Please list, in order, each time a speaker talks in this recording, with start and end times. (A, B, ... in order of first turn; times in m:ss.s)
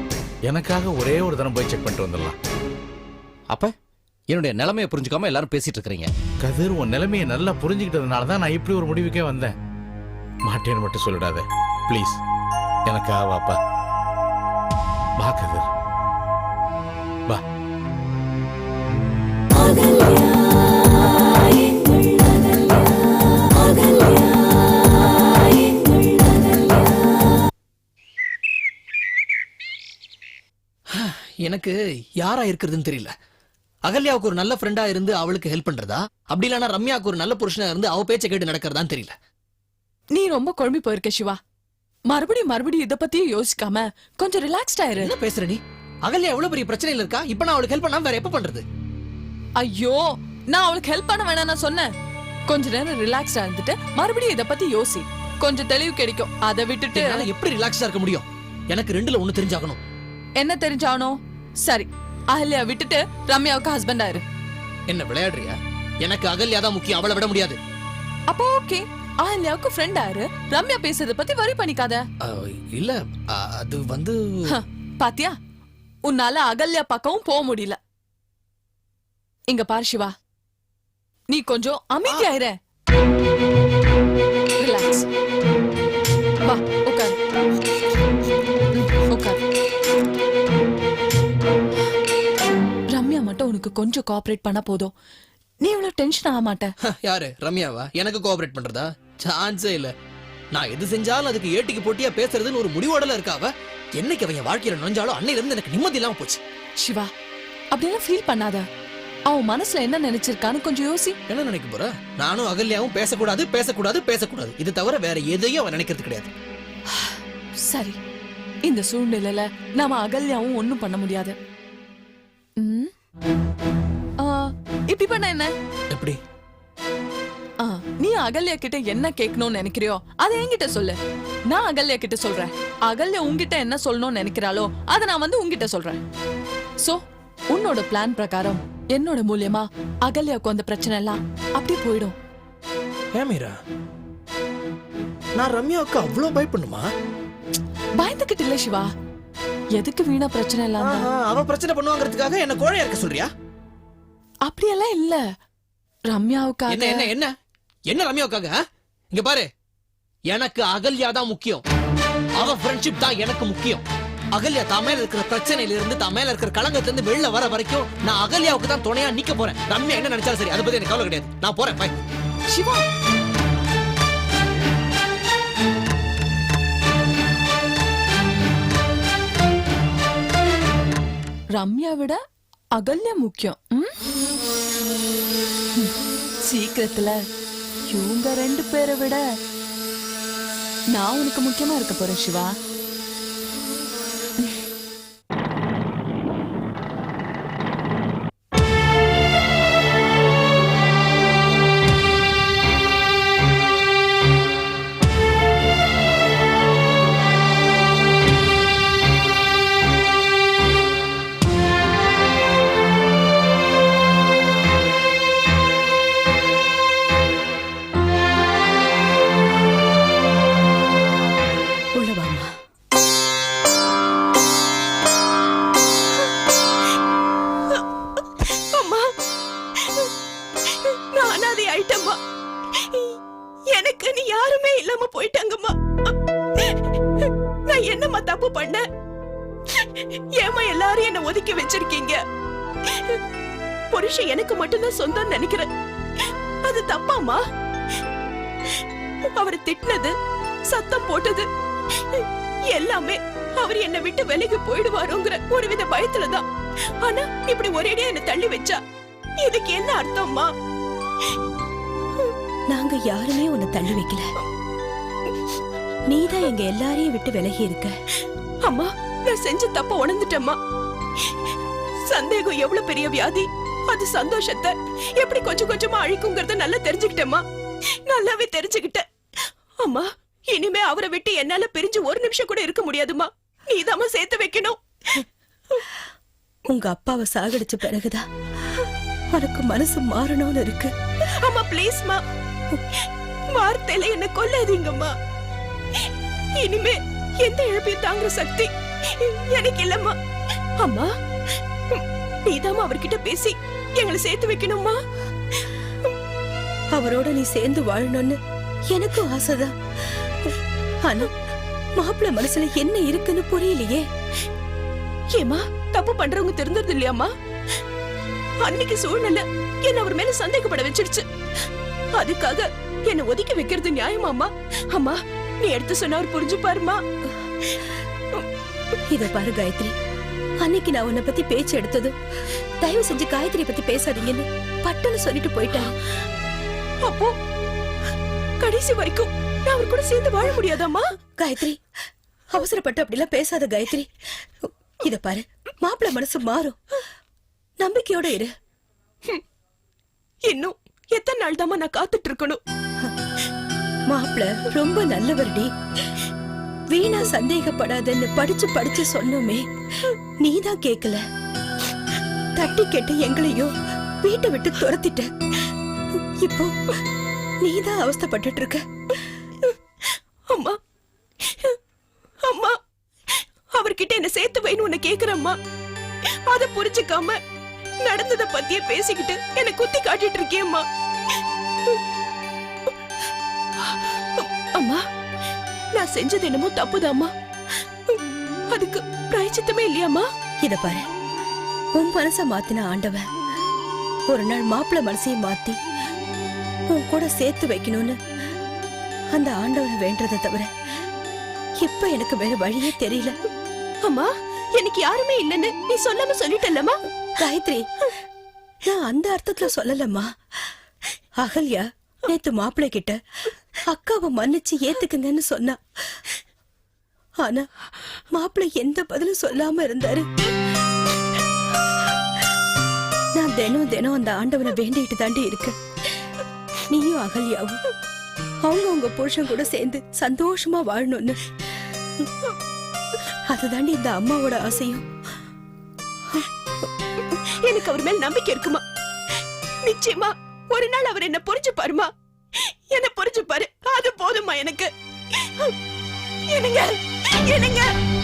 0:00.5-0:02.4 A
0:03.5-0:03.8 B
0:04.3-0:06.1 B
0:06.4-0:09.6 A
0:10.5-0:12.2 A
0:12.9-0:13.6 A
0:15.2-0:15.7 A
0:31.0-0:33.1 C
0:33.9-0:39.1 C
0:40.1-0:41.4 D
0:42.1-0:45.1 D
0:45.0-0:48.6 C
0:49.6-0:51.9 D
0:52.5-0:57.3 D
0:56.9-0:59.8 C
1:00.4-1:04.2 D
1:04.9-1:07.6 C
1:08.3-1:12.0 D
1:12.2-1:14.4 C
1:14.5-1:15.4 D
1:16.1-1:17.8 D
1:19.5-1:20.1 D
1:21.3-1:22.6 D
1:24.6-1:25.0 D
1:26.4-1:27.2 D
1:28.8-1:29.4 D
1:32.9-1:34.9 D
1:35.6-1:36.7 D
1:36.9-1:39.9 C
1:40.5-1:46.4 C
1:46.8-1:47.1 D
1:47.7-1:48.7 D
1:49.3-1:51.2 D
1:51.3-1:56.3 C
1:56.9-1:58.0 D
1:58.6-2:01.4 D
2:02.6-2:02.9 D
2:04.2-2:05.5 D
2:05.9-2:06.2 C
2:07.6-2:11.0 D
2:11.5-2:16.0 D
2:16.8-2:22.2 D
2:23.2-2:23.6 C
2:25.4-2:26.8 C
2:28.0-2:28.9 D
2:29.8-2:31.1 D
2:30.8-2:33.3 C
2:34.5-2:35.2 D
2:36.1-2:37.1 D
2:36.7-2:37.3 C
2:37.9-2:38.5 C
2:39.1-2:39.5 C
2:40.3-2:41.6 C
2:42.4-2:43.8 C
2:44.4-2:52.0 C
2:52.5-2:52.8 D
3:01.6-3:02.2 D
3:02.8-3:04.0 D
3:06.5-3:07.2 D
3:07.9-3:09.2 D
3:10.9-3:12.5 D
3:42.0-3:42.5 E
3:48.7-3:49.1 F
3:50.9-3:52.2 F
3:53.7-3:55.8 F
3:57.7-3:58.8 F
3:59.8-4:02.2 F
4:03.9-4:05.7 F
4:06.6-4:07.4 F
4:09.4-4:10.2 F
4:10.7-4:11.5 F
4:12.2-4:16.4 F
4:17.0-4:18.8 F
4:19.4-4:20.5 F
4:22.7-4:24.3 E
4:26.1-4:27.9 E
4:28.6-4:30.6 F
4:32.1-4:37.4 F
4:38.1-4:39.0 F
4:39.8-4:44.8 F
4:46.7-4:48.2 E
4:49.4-4:50.9 E
4:51.4-4:52.2 F
4:53.5-4:55.1 F
4:56.6-5:00.2 F
5:00.8-5:01.1 F
5:01.9-5:05.0 F
5:07.0-5:08.4 E
5:08.9-5:09.7 E
5:11.0-5:11.3 E
5:12.0-5:14.0 E
5:15.4-5:17.3 F
5:18.6-5:21.2 F
5:22.2-5:27.0 F
5:29.1-5:29.9 E
5:30.6-5:32.2 E
5:32.8-5:35.9 E
5:37.0-5:37.4 F
5:38.6-5:41.0 F
5:41.4-5:41.8 E
5:42.5-5:44.1 E
5:45.0-5:46.8 E
5:47.8-5:48.5 E
5:50.5-5:52.6 F
5:54.1-5:55.7 E
5:56.9-5:59.6 E
6:00.4-6:01.2 E
6:02.6-6:05.3 E
6:06.4-6:06.7 E
6:07.6-6:08.8 E
6:10.5-6:10.8 F
6:12.5-6:12.8 F
6:13.7-6:15.6 F
6:16.5-6:17.4 F
6:18.0-6:20.8 F
6:24.4-6:25.0 F
6:26.0-6:27.3 F
6:28.7-6:30.3 F
6:30.6-6:31.1 E
6:32.0-6:33.2 E
6:34.3-6:35.8 E
6:36.9-6:38.2 E
6:39.3-6:40.7 E
6:41.8-6:43.4 E
6:44.1-6:47.0 F
6:47.4-6:47.9 E
6:48.8-6:50.3 E
6:51.4-6:53.2 E
6:53.9-6:55.8 E
6:58.3-7:00.3 E
7:03.4-7:05.7 E
7:06.9-7:07.8 E
7:08.6-7:11.4 E
7:13.5-7:15.0 E
7:17.6-7:18.8 F
7:19.8-7:22.1 F
7:22.9-7:24.9 F
7:26.5-7:27.9 F